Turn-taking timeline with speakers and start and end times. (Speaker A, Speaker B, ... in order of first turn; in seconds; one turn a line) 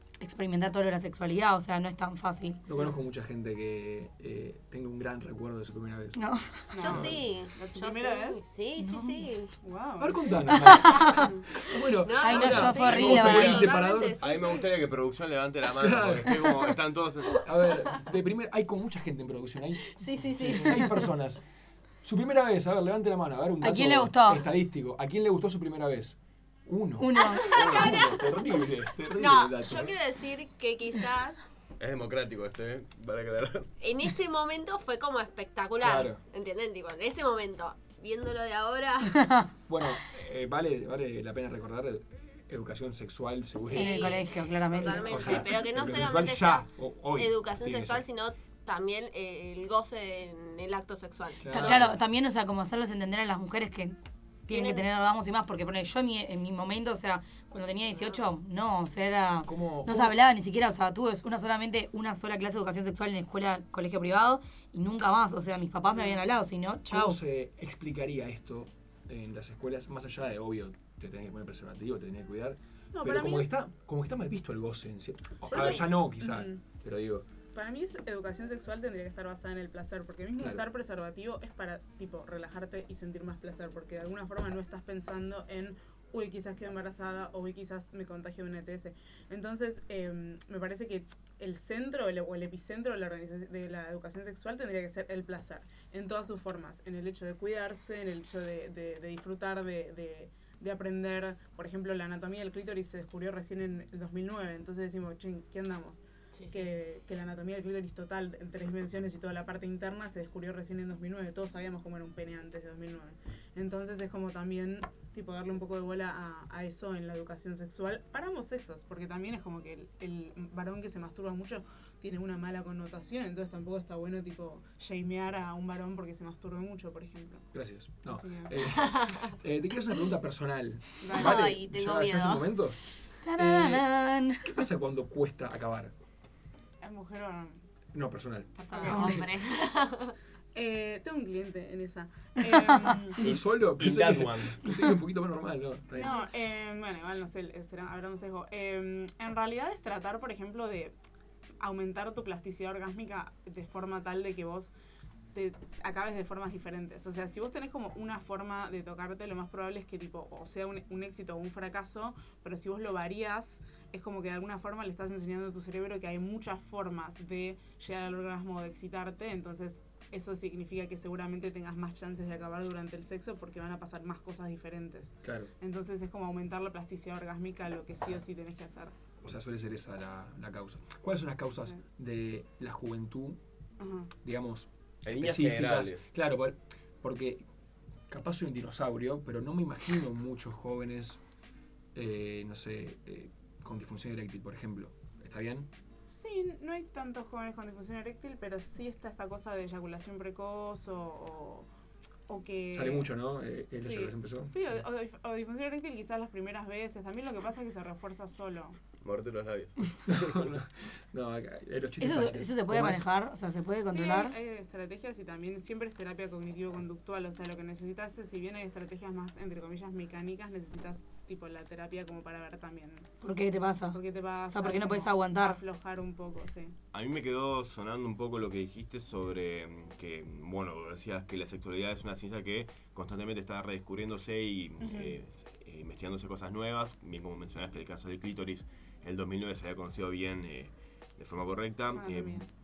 Speaker A: 0.2-2.6
Speaker B: 2.6-6.2
Speaker A: 6.2-6.7
Speaker C: 6.7-8.4
Speaker D: 6.8-9.5
Speaker B: 6.8-7.2
Speaker A: 8.8-9.3
Speaker C: 9.6-11.4
Speaker B: 10.0-14.2
Speaker A: 10.6-11.1
Speaker D: 12.0-14.4
Speaker A: 12.2-13.7
Speaker E: 12.8-17.4
Speaker B: 15.8-16.6
Speaker B: 17.4-21.4
Speaker D: 19.9-20.9
Speaker A: 20.4-20.8
Speaker B: 22.0-29.9
Speaker A: 23.6-24.4
Speaker A: 27.0-27.5
Speaker D: 27.6-28.1
Speaker D: 29.2-31.4
Speaker E: 31.8-33.7
Speaker D: 33.8-39.2
Speaker B: 35.8-36.2
Speaker A: 39.1-39.5
Speaker B: 39.6-44.2
Speaker D: 43.6-51.8
Speaker A: 43.7-45.5
Speaker B: 44.8-48.1
Speaker B: 51.4-52.0
Speaker A: 51.5-53.9
Speaker A: 54.5-67.2
Speaker D: 54.5-54.8
Speaker B: 59.5-60.1
Speaker C: 65.9-66.2
Speaker B: 66.9-77.2
Speaker C: 72.9-73.5
Speaker C: 75.5-76.6
Speaker C: 77.5-127.4
Speaker B: 80.4-80.6
Speaker D: 106.3-106.6
Speaker B: 127.5-132.8
Speaker C: 128.1-128.5
Speaker C: 131.0-131.5
Speaker D: 131.2-132.5
Speaker A: 133.2-134.6
Speaker B: 133.3-133.9
Speaker B: 134.4-135.9
Speaker C: 136.8-137.6
Speaker B: 137.9-138.6
Speaker C: 138.6-139.3
Speaker D: 138.8-140.1
Speaker A: 138.9-139.2
Speaker C: 140.5-143.2
Speaker B: 143.2-146.1
Speaker E: 143.2-144.5
Speaker C: 145.9-150.9
Speaker C: 151.6-154.7
Speaker C: 155.3-178.9
Speaker B: 175.2-175.5
Speaker B: 179.2-183.4
Speaker C: 183.8-184.1
Speaker B: 184.2-187.4
Speaker E: 185.0-186.1
Speaker B: 188.1-191.2
Speaker B: 191.9-195.7
Speaker C: 196.1-201.7
Speaker C: 202.3-203.1
Speaker B: 202.7-204.5
Speaker C: 203.7-208.8
Speaker E: 209.0-209.9
Speaker B: 210.1-213.0
Speaker A: 212.0-214.3
Speaker C: 213.9-223.1
Speaker A: 223.2-224.0
Speaker C: 223.9-226.8
Speaker A: 224.5-225.6
Speaker E: 226.9-242.4
Speaker C: 234.8-235.2
Speaker C: 241.9-242.5